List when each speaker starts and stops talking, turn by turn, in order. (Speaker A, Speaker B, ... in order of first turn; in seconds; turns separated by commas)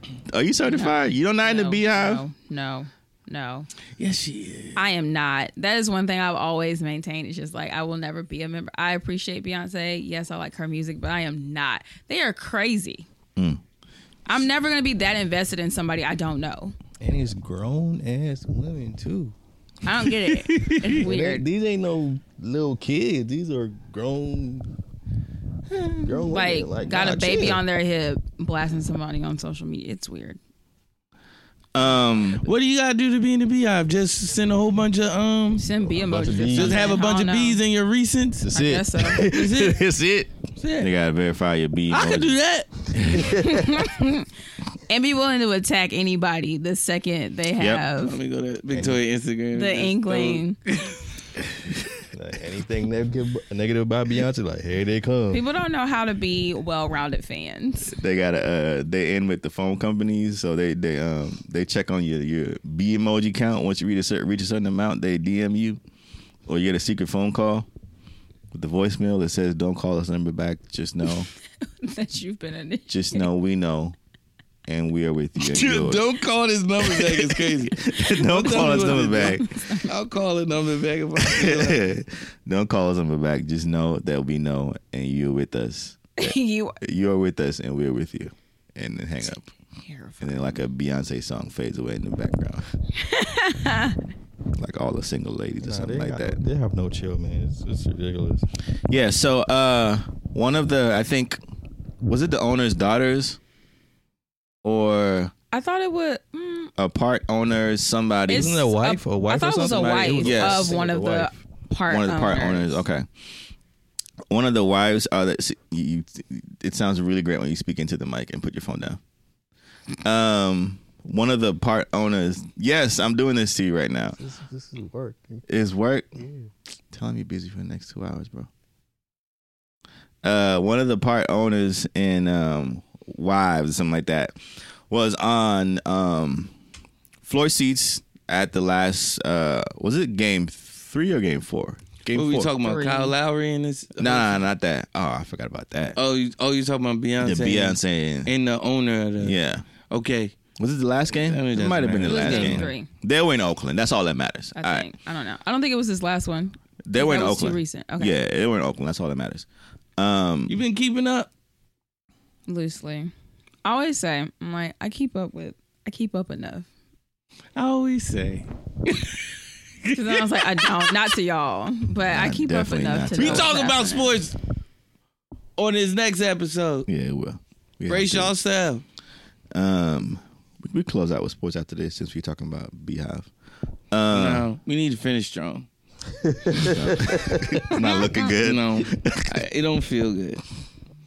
Speaker A: 0.3-2.2, Speaker B: 0.7-3.7, Speaker C: 4.0-4.8, Speaker B: 4.8-13.1, Speaker B: 14.3-16.8, Speaker D: 17.0-19.4, Speaker B: 19.9-21.5, Speaker C: 20.5-20.8, Speaker D: 20.9-24.7, Speaker D: 26.0-27.6, Speaker B: 26.1-30.4, Speaker A: 31.7-32.4, Speaker C: 32.4-35.6, Speaker B: 35.6-37.6, Speaker D: 35.8-37.0, Speaker C: 36.5-38.5, Speaker B: 38.5-39.2, Speaker A: 38.5-42.4, Speaker C: 39.2-39.8, Speaker C: 40.6-40.9, Speaker C: 41.9-42.7, Speaker A: 42.9-43.3, Speaker D: 43.1-43.6, Speaker B: 43.4-44.3, Speaker B: 44.9-48.2, Speaker A: 47.6-47.9, Speaker C: 48.0-50.9, Speaker B: 49.5-50.6, Speaker D: 52.1-55.4, Speaker B: 55.3-58.0, Speaker A: 57.9-65.8, Speaker A: 66.5-67.7, Speaker A: 68.5-71.3, Speaker B: 71.8-73.3, Speaker A: 72.9-74.0, Speaker A: 74.7-76.1, Speaker C: 75.4-81.8, Speaker A: 76.8-79.6, Speaker B: 78.5-79.9, Speaker A: 81.2-89.5, Speaker B: 86.2-86.8, Speaker B: 89.8-90.6, Speaker A: 90.2-92.7, Speaker B: 93.0-94.0, Speaker A: 94.6-96.4, Speaker D: 95.6-98.5, Speaker A: 98.9-101.4, Speaker A: 102.0-103.4, Speaker A: 104.6-105.3, Speaker B: 105.5-106.7, Speaker A: 106.8-108.5, Speaker D: 108.3-111.3, Speaker B: 108.3-112.8, Speaker A: 110.1-110.8, Speaker A: 111.9-113.1, Speaker A: 114.3-119.0, Speaker A: 120.0-124.2, Speaker D: 124.2-125.4, Speaker A: 125.5-126.1, Speaker D: 126.2-126.5, Speaker A: 126.9-128.5, Speaker A: 130.2-134.4, Speaker A: 134.9-136.5, Speaker A: 137.2-142.5, Speaker C: 142.1-144.4, Speaker B: 142.6-143.2, Speaker A: 144.0-146.0, Speaker C: 146.0-149.4, Speaker A: 147.2-148.3, Speaker A: 149.2-149.6, Speaker C: 149.9-150.3, Speaker A: 150.6-154.9, Speaker C: 151.1-152.7, Speaker B: 152.1-152.9, Speaker B: 154.6-158.2, Speaker A: 156.9-159.5, Speaker A: 160.0-160.6, Speaker C: 160.5-161.3, Speaker B: 162.5-163.1, Speaker B: 163.7-166.7, Speaker C: 167.6-169.2, Speaker C: 169.8-170.9, Speaker B: 169.9-174.2, Speaker A: 172.1-173.5, Speaker C: 173.2-174.3, Speaker C: 175.6-176.9, Speaker A: 176.9-178.3, Speaker C: 177.9-178.8, Speaker A: 179.5-183.3, Speaker A: 183.9-184.5, Speaker C: 184.1-185.7, Speaker D: 186.3-187.5, Speaker A: 186.5-189.4, Speaker B: 187.8-188.3, Speaker C: 188.4-190.4